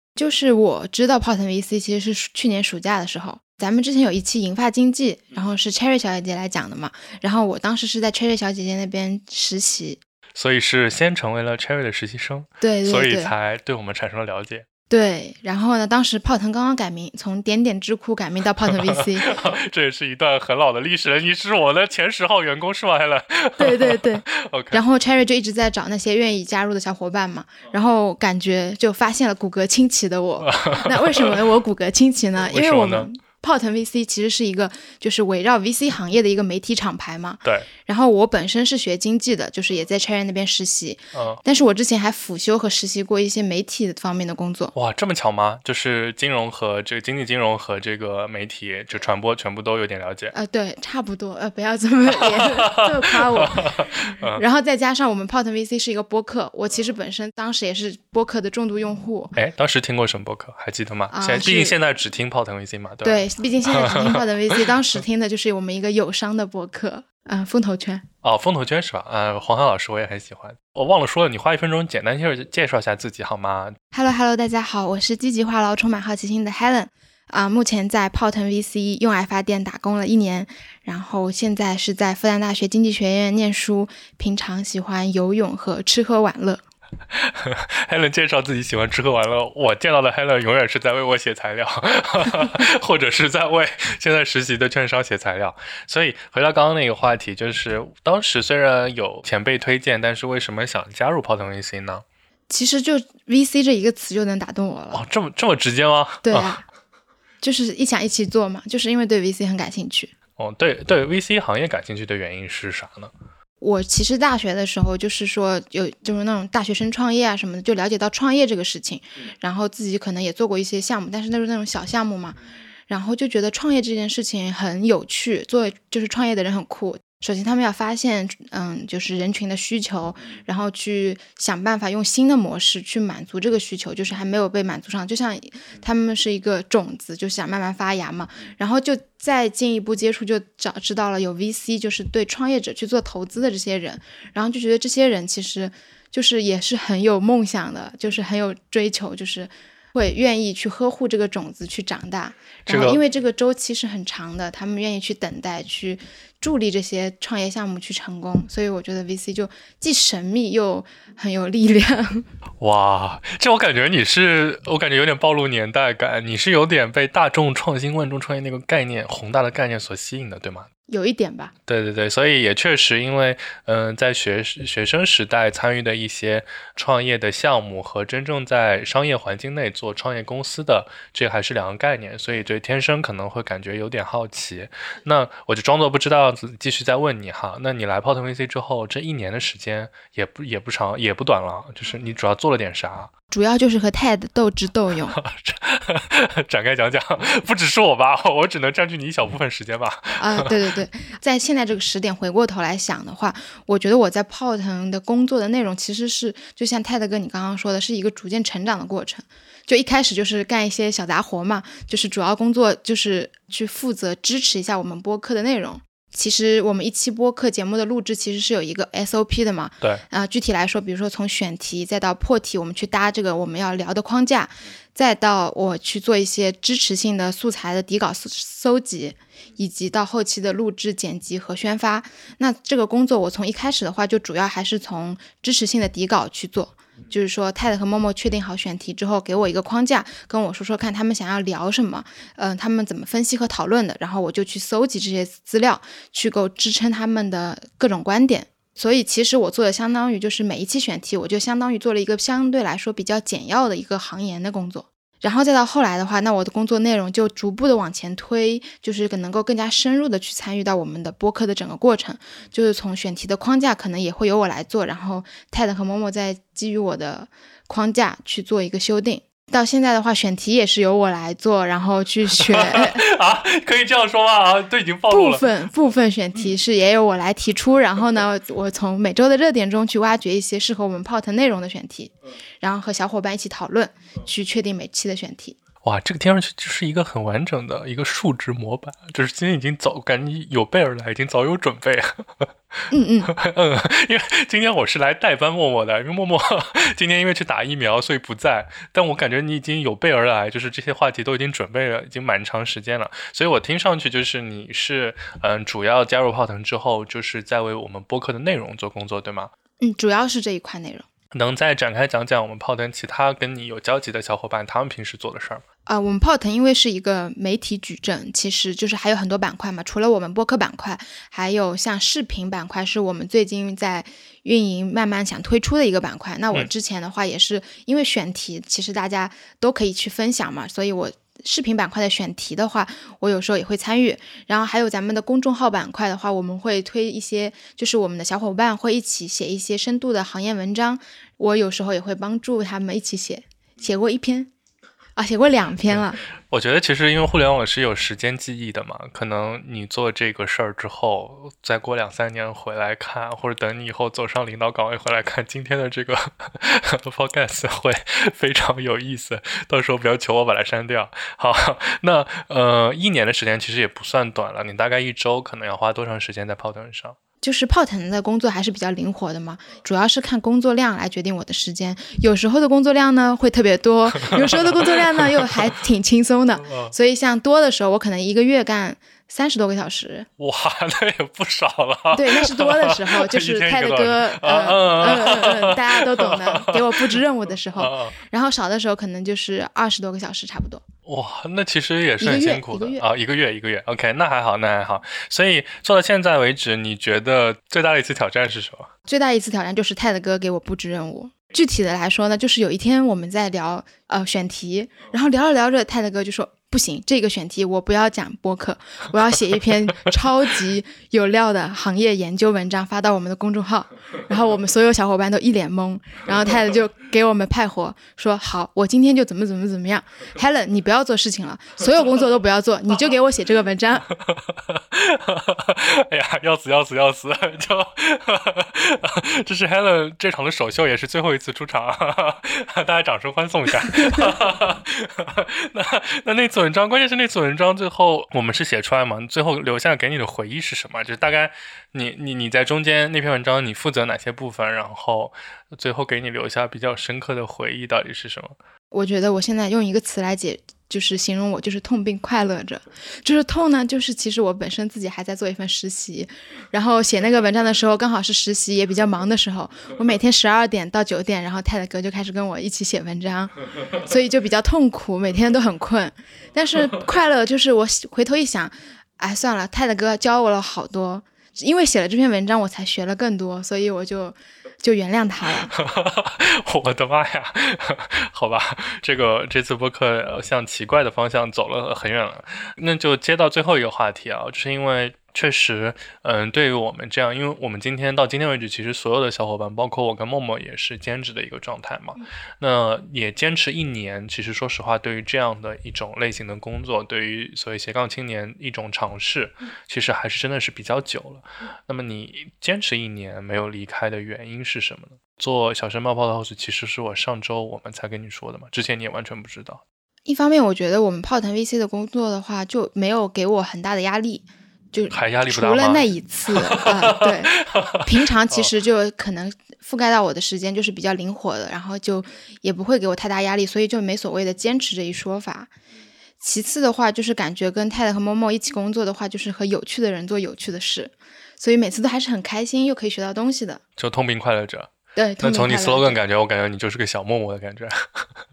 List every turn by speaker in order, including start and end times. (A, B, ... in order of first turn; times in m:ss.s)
0:00.2-0:10.0 A
0:10.4-0:14.6 B
0:12.6-0:13.3 A
0:14.9-0:19.3 A
0:18.7-0:24.8 B
0:23.6-0:44.7 A
0:30.4-0:31.3 B
0:32.5-0:33.1 B
0:41.1-0:41.4 B
0:44.7-0:50.3 B
0:50.3-0:59.4 A
0:52.3-0:54.4 B
0:59.4-1:04.7 B
1:01.1-1:01.8 A
1:03.0-1:08.0 A
1:08.2-1:13.8 B
1:13.9-1:26.6 A
1:27.2-1:42.0 B
1:42.5-1:45.0 A
1:44.9-1:46.6 B
1:46.2-1:46.6 A
1:47.4-1:50.1 A
1:50.4-1:53.1 B
1:53.6-2:42.2 A
2:32.7-2:33.0 B
2:42.6-2:50.7 B
2:50.9-2:51.5 A
2:51.7-3:13.1 B
3:13.3-3:15.2 A
3:15.1-3:20.6 B
3:20.2-4:33.1 A
4:32.5-4:35.5 B
4:35.1-4:45.6 A
4:45.8-4:52.5 B
4:52.9-4:53.3 A
4:53.3-5:09.5 B
5:09.8-5:11.1 A
5:11.3-5:15.6 B
5:15.9-5:44.5 A
5:45.2-5:46.2 A
5:46.5-6:07.2 B
6:07.4-6:20.3 A
6:14.1-6:15.7 B
6:16.6-6:16.9 B
6:20.4-6:27.0 B
6:22.1-6:30.8 A
6:27.8-6:28.2 B
6:31.1-6:38.9 B
6:32.2-6:33.0 A
6:39.1-7:04.1 A
7:04.2-7:28.6 B
7:28.9-7:55.7 A
7:55.7-8:29.8 B
8:30.3-8:45.7 A
8:35.1-8:36.1 B
8:36.8-8:38.7 B
8:46.4-8:53.8 A
8:54.0-8:58.2 B
8:55.2-8:56.2 A